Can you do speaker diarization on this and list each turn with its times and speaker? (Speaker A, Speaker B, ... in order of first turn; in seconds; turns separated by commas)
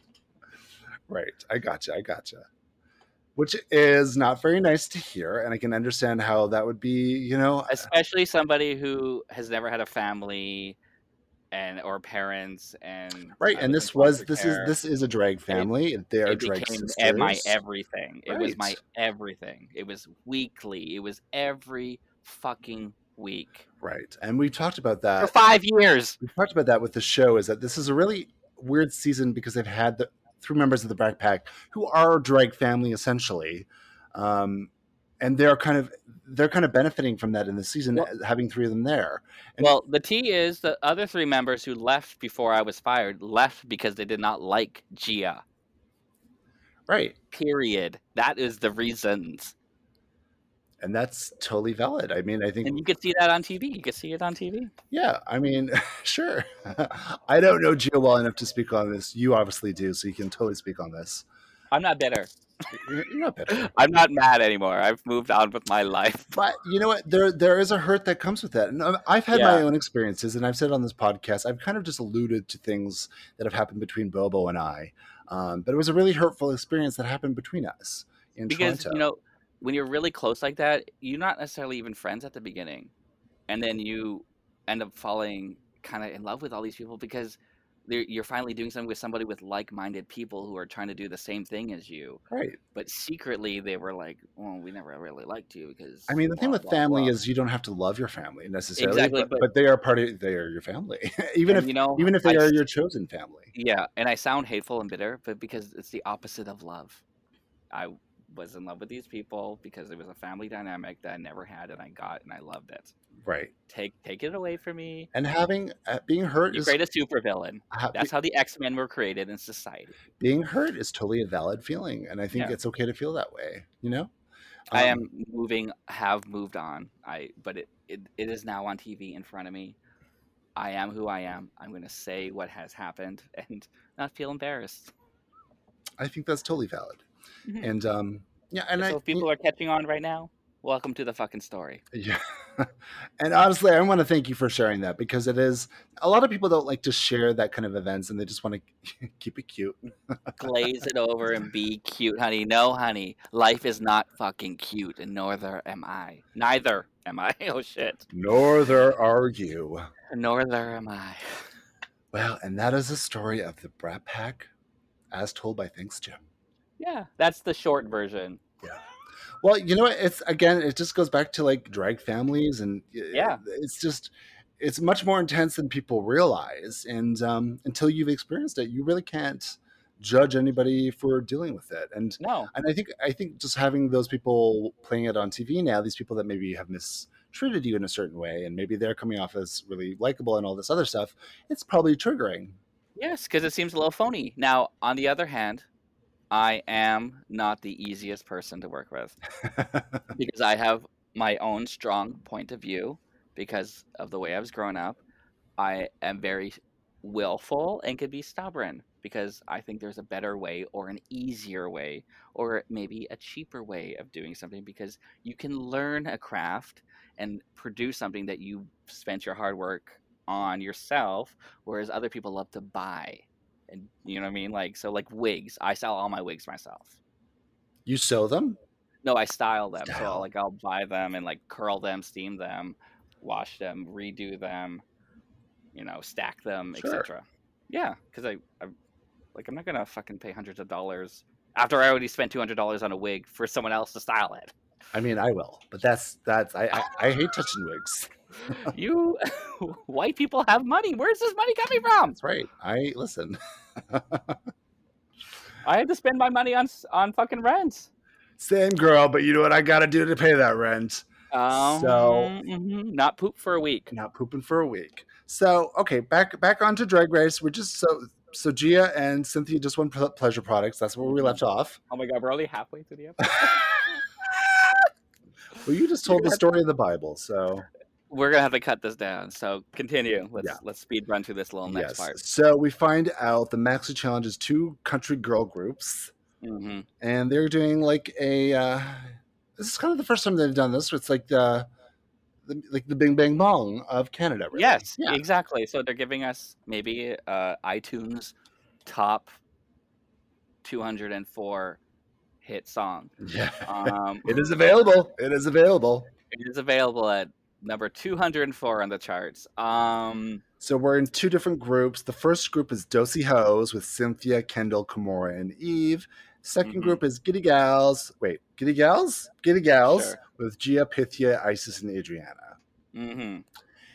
Speaker A: 1.1-2.5, Speaker A: 3.4-7.9, Speaker B: 7.7-10.8, Speaker B: 11.5-14.8, Speaker A: 13.4-17.6, Speaker B: 16.3-23.7, Speaker A: 18.3-18.8, Speaker A: 23.8-25.4, Speaker B: 25.2-26.2, Speaker A: 26.2-34.7, Speaker A: 35.2-39.8, Speaker B: 39.6-45.4, Speaker A: 46.9-47.2, Speaker B: 47.3-49.5, Speaker A: 50.8-52.8, Speaker B: 52.6-54.7, Speaker A: 54.9-61.2, Speaker B: 61.7-62.3, Speaker A: 62.7-63.7, Speaker B: 63.5-66.3, Speaker A: 66.3-79.0, Speaker B: 69.3-69.7, Speaker B: 78.5-82.9, Speaker B: 83.5-92.2, Speaker A: 92.3-92.6, Speaker B: 92.8-97.2, Speaker A: 96.1-103.5, Speaker B: 98.8-99.5, Speaker B: 101.5-102.6, Speaker B: 103.5-107.0, Speaker B: 107.7-112.9, Speaker A: 113.2-113.5, Speaker B: 113.7-115.1, Speaker A: 115.1-116.8, Speaker B: 116.5-120.0, Speaker A: 117.7-118.1, Speaker A: 120.2-124.1, Speaker A: 124.7-125.0, Speaker B: 124.7-129.8, Speaker B: 130.6-134.9, Speaker A: 136.0-137.0, Speaker A: 137.6-139.3, Speaker B: 138.8-141.8, Speaker A: 141.9-149.8, Speaker B: 150.4-158.1, Speaker A: 158.1-159.9, Speaker B: 160.1-161.4, Speaker A: 162.1-164.5, Speaker A: 165.1-166.2, Speaker B: 166.8-168.4, Speaker A: 169.4-192.6, Speaker B: 173.1-173.4, Speaker B: 182.2-182.5, Speaker B: 193.0-195.7, Speaker B: 196.3-199.2, Speaker A: 199.5-200.0, Speaker B: 200.1-205.0, Speaker B: 205.6-227.0, Speaker A: 227.9-228.6, Speaker B: 229.0-234.8, Speaker A: 229.9-230.2, Speaker B: 235.7-238.7, Speaker A: 236.8-237.1, Speaker B: 239.3-244.5, Speaker A: 244.9-248.7, Speaker B: 248.6-252.2, Speaker A: 252.1-253.4, Speaker A: 253.9-254.4, Speaker B: 255.6-257.9, Speaker A: 258.4-262.4, Speaker B: 261.3-263.9, Speaker A: 263.9-271.8, Speaker B: 271.0-273.9, Speaker A: 275.6-277.7, Speaker B: 276.1-276.4, Speaker B: 278.1-282.2, Speaker A: 281.7-286.1, Speaker B: 286.4-286.9, Speaker A: 287.0-291.7, Speaker A: 292.5-295.2, Speaker B: 294.5-299.4, Speaker B: 300.6-301.8, Speaker B: 302.4-304.4, Speaker A: 303.2-306.1, Speaker B: 306.3-310.4, Speaker A: 310.6-322.6, Speaker B: 316.6-317.0, Speaker B: 319.9-320.2, Speaker B: 322.9-323.4